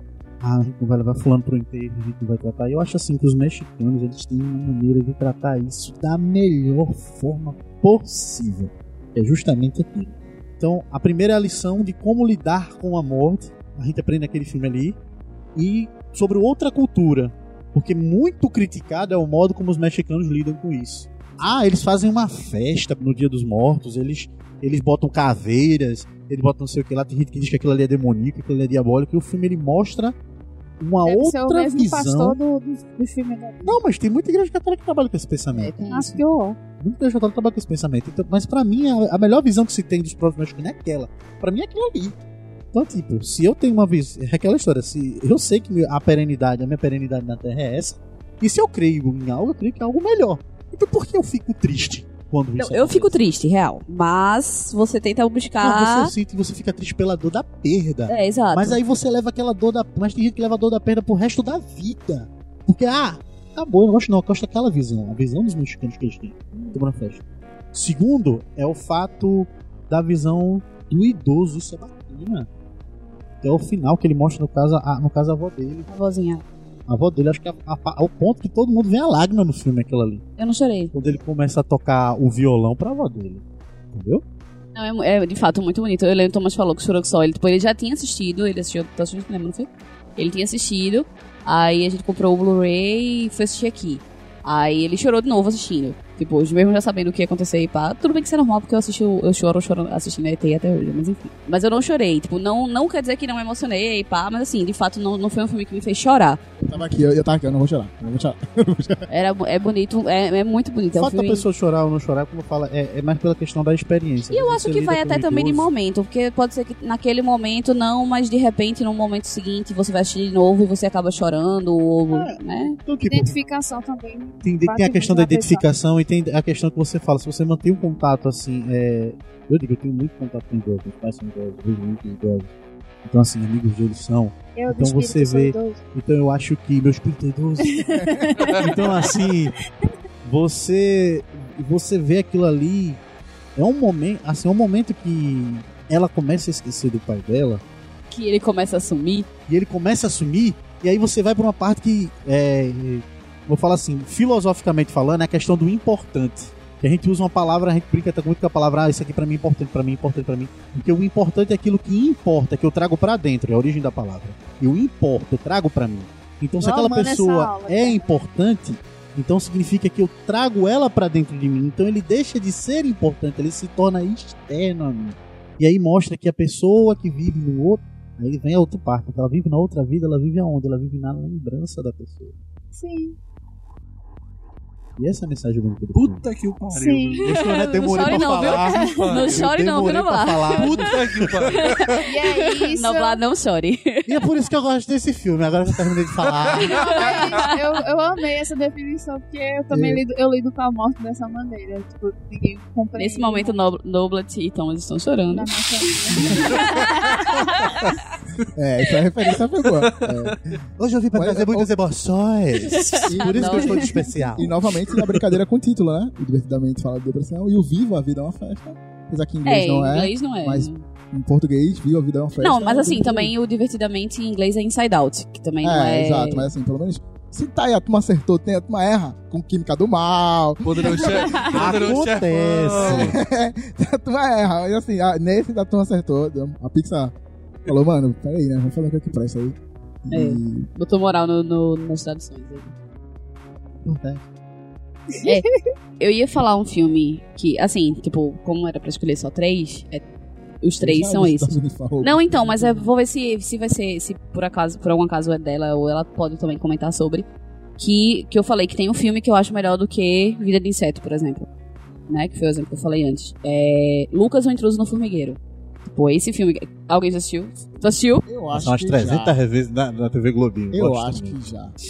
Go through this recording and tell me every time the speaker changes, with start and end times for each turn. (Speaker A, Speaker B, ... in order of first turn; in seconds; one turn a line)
Speaker A: 0.4-15.0
Speaker A: 15.5-30.1
Speaker A: 30.8-32.4
Speaker B: 31.0-33.8
Speaker A: 33.6-35.8
Speaker C: 35.5-36.2
Speaker B: 35.9-36.6
Speaker A: 36.8-42.1
Speaker A: 42.7-53.2
Speaker C: 52.5-56.1
Speaker A: 55.6-72.5
Speaker C: 58.1-58.8
Speaker A: 73.4-75.9
Speaker C: 75.9-76.4
Speaker A: 76.9-80.2
Speaker C: 80.4-80.9
Speaker A: 80.9-84.2
Speaker C: 84.7-106.4
Speaker D: 106.6-109.0
Speaker C: 109.1-111.5
Speaker A: 110.9-115.7
Speaker C: 114.3-122.8
Speaker A: 122.1-123.3
Speaker B: 123.0-125.7
Speaker A: 124.4-132.5
Speaker A: 133.0-137.9
Speaker B: 134.5-135.8
Speaker B: 137.6-139.2
Speaker D: 138.0-138.3
Speaker A: 138.5-139.5
Speaker A: 140.2-143.0
Speaker A: 143.6-147.6
Speaker C: 148.1-149.3
Speaker A: 149.5-182.3
Speaker B: 166.6-168.1
Speaker B: 182.7-183.2
Speaker A: 185.0-186.3
Speaker E: 185.9-189.4
Speaker B: 186.7-187.2
Speaker A: 187.2-191.6
Speaker C: 187.3-194.2
Speaker B: 188.7-189.2
Speaker E: 190.6-192.0
Speaker B: 192.1-193.2
Speaker A: 194.1-196.9
Speaker B: 196.7-203.6
Speaker C: 196.7-197.5
Speaker D: 199.7-200.0
Speaker C: 202.9-205.5
Speaker B: 205.3-207.6
Speaker C: 206.1-207.8
Speaker D: 208.5-210.5
Speaker A: 210.8-214.6
Speaker D: 211.1-211.7
Speaker C: 212.7-213.9
Speaker D: 213.1-213.8
Speaker B: 213.5-214.0
Speaker D: 214.3-223.3
Speaker C: 219.4-220.8
Speaker C: 222.4-226.5
Speaker D: 225.6-231.3
Speaker E: 230.6-233.2
Speaker B: 231.1-231.4
Speaker A: 231.5-233.1
Speaker D: 232.8-237.1
Speaker D: 237.7-240.7
Speaker C: 240.1-242.7
Speaker A: 243.8-244.2
Speaker C: 246.0-250.0
Speaker C: 250.6-257.2
Speaker D: 250.8-252.9
Speaker C: 257.8-261.5
Speaker C: 262.1-268.2
Speaker D: 268.2-269.4
Speaker A: 268.5-271.4
Speaker D: 270.7-271.7